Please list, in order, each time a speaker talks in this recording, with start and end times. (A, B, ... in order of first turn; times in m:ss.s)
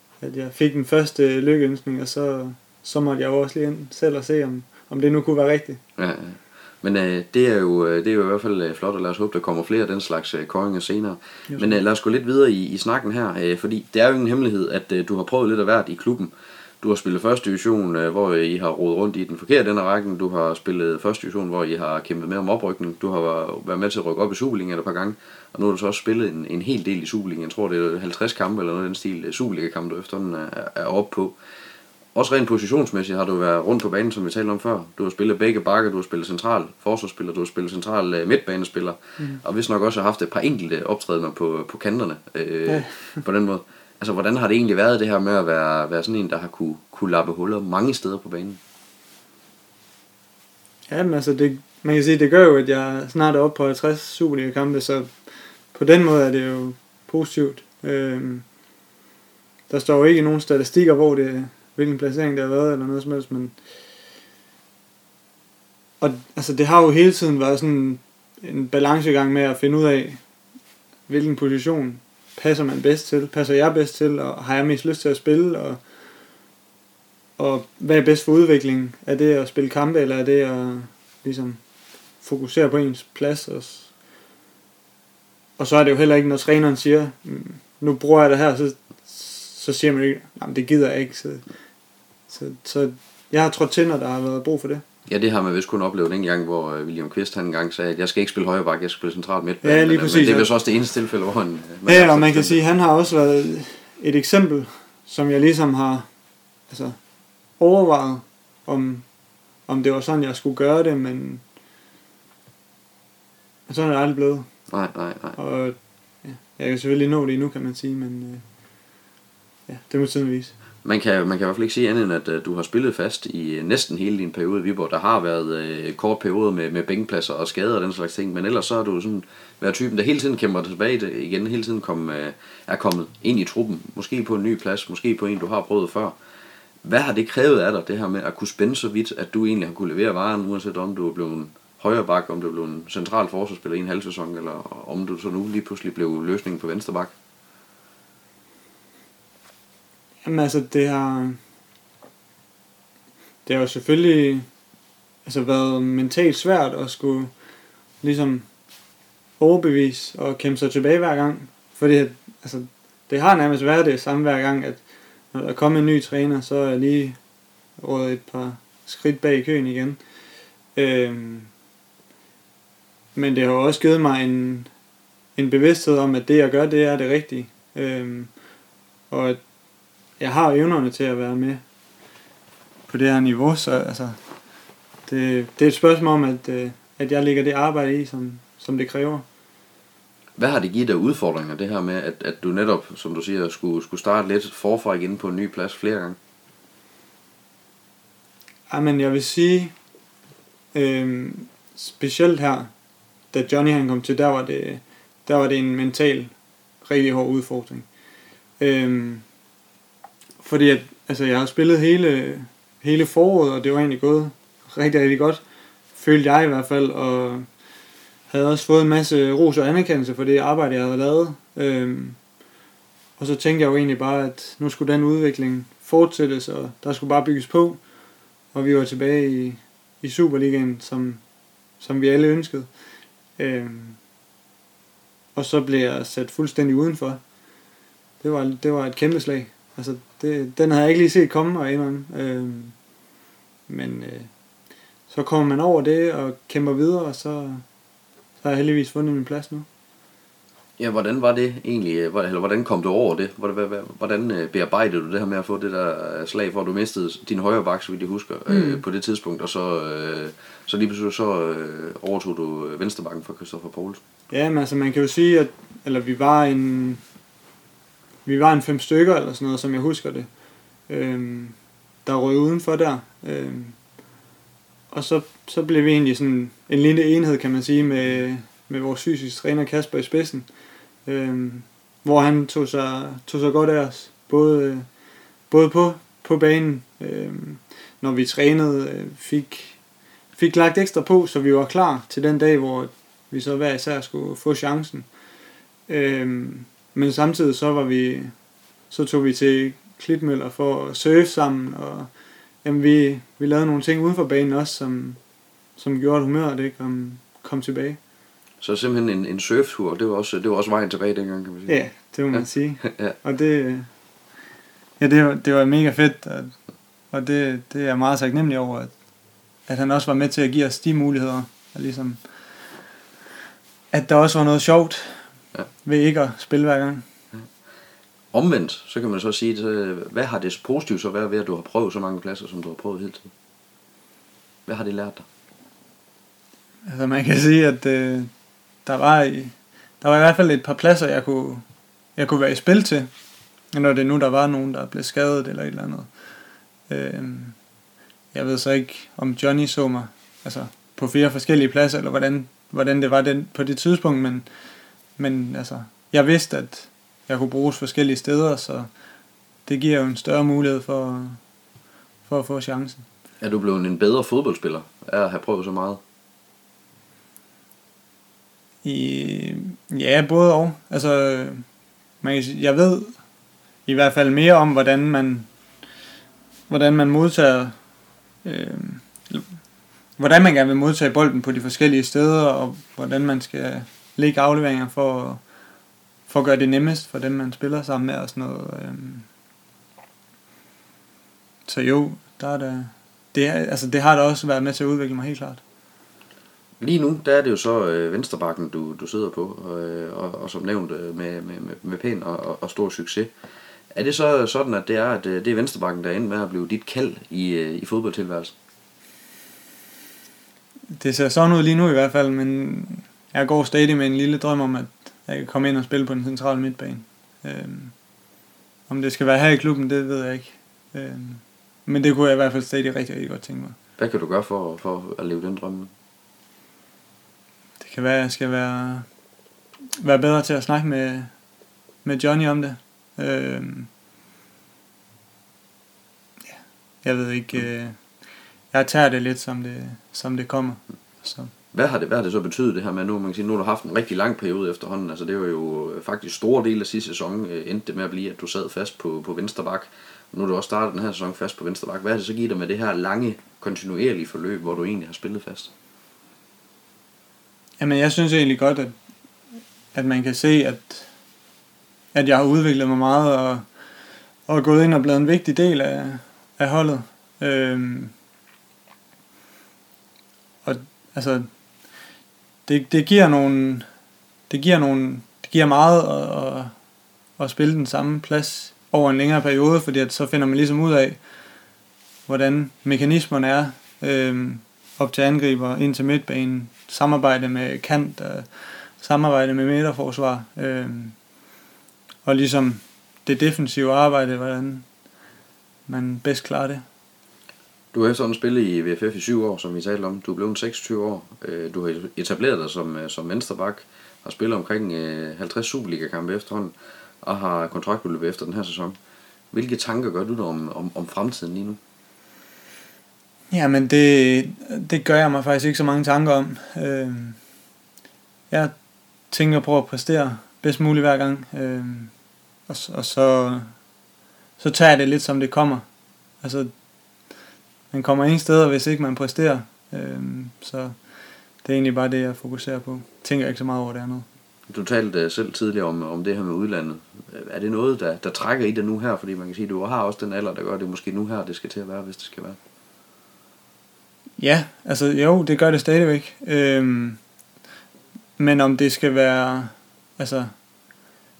0:00.2-0:05.8 A
0:06.0-0:31.4 B
0:11.5-0:11.8 A
0:32.2-0:48.6 B
0:42.7-0:43.2 A
0:50.9-0:55.1 A
0:55.7-0:58.5 A
0:59.7-1:03.6 A
1:06.0-1:10.2 A
1:11.1-1:15.8 A
1:17.4-1:21.6 A
1:22.2-1:23.9 A
1:25.6-1:31.5 A
1:32.3-1:34.8 A
1:35.1-1:42.6 B
1:39.6-1:40.5 A
1:41.9-1:46.1 A
1:46.7-1:47.0 A
1:47.6-1:49.0 A
1:49.7-1:51.4 A
1:53.7-1:54.5 A
1:54.7-1:55.4 B
1:55.4-1:58.4 A
1:59.7-2:00.5 A
2:00.8-2:16.2 B
2:16.8-2:27.1 B
2:30.2-2:31.4 A
2:33.4-2:34.5 A
2:35.2-2:37.3 A
2:38.0-2:38.5 A
2:39.4-2:47.2 A
2:47.8-2:50.0 A
2:50.8-2:51.5 A
2:53.2-2:54.7 A
2:55.4-2:58.3 A
2:59.1-2:59.4 A
3:00.2-3:01.6 A
3:02.9-3:04.2 A
3:05.1-3:09.2 A
3:10.4-3:16.2 B
3:18.7-3:19.7 A
3:20.7-3:22.7 A
3:23.3-3:27.9 A
3:28.6-3:29.2 A
3:30.4-3:35.4 A
3:36.0-3:37.5 A
3:38.3-3:42.2 A
3:43.2-3:47.8 A
3:48.5-3:51.2 A
3:51.8-3:52.7 A
3:53.4-3:54.0 A
3:55.4-3:57.2 A
3:58.2-4:02.8 A
4:03.7-4:04.3 A
4:05.1-4:07.6 A
4:08.4-4:09.7 A
4:10.8-4:24.0 B
4:18.5-4:18.8 A
4:24.3-4:27.0 A
4:28.3-4:30.3 A
4:30.9-4:33.8 A
4:34.9-4:40.5 A
4:41.1-4:44.9 A
4:45.5-4:49.8 A
4:50.4-4:55.1 A
4:55.9-4:58.3 A
4:58.9-5:02.1 A
5:02.6-5:05.2 A
5:05.8-5:08.0 A
5:08.6-5:11.8 B
5:11.7-5:13.9 A
5:12.3-5:13.2 B
5:15.0-5:16.5 A
5:17.1-5:18.9 A
5:19.7-5:22.2 A
5:23.9-5:25.2 A
5:25.8-5:27.0 A
5:28.3-5:33.3 B
5:34.7-5:35.3 B
5:36.9-5:38.3 A
5:38.8-5:41.6 A
5:42.2-5:43.1 A
5:43.7-5:46.1 A
5:46.9-5:47.6 A
5:48.3-5:54.5 A
5:55.2-5:58.9 A
5:59.7-6:01.4 A
6:02.2-6:03.1 A
6:03.4-6:06.0 B
6:08.8-6:11.6 A
6:12.2-6:13.1 A
6:13.9-6:15.5 A
6:16.7-6:17.8 A
6:18.4-6:19.6 A
6:20.2-6:25.4 A
6:26.3-6:29.3 A
6:31.7-6:35.6 A
6:36.8-6:43.3 B
6:43.9-6:48.5 B
6:51.0-6:57.9 A
6:58.9-7:03.8 A
7:04.0-7:05.9 B
7:07.8-7:09.1 A
7:10.0-7:11.3 A
7:12.0-7:13.9 A
7:16.5-7:18.0 A
7:18.7-7:21.5 A
7:21.7-7:35.7 B
7:37.8-7:38.9 A
7:39.9-7:41.1 A
7:42.1-7:43.6 A
7:44.5-7:48.1 A
7:50.6-7:51.5 A
7:52.7-7:53.9 A
7:54.5-7:56.7 A
7:57.4-8:01.2 A
8:02.3-8:11.2 A
8:12.2-8:14.9 A
8:15.9-8:16.8 A
8:17.9-8:29.0 B
8:29.5-8:31.8 B
8:33.5-8:37.4 A
8:39.3-8:42.1 A
8:42.7-8:43.7 A
8:44.6-8:45.8 A
8:46.4-8:46.7 A
8:47.9-8:51.0 A
8:51.6-8:54.3 A
8:54.7-9:02.6 B
9:04.4-9:07.2 A
9:08.4-9:10.5 A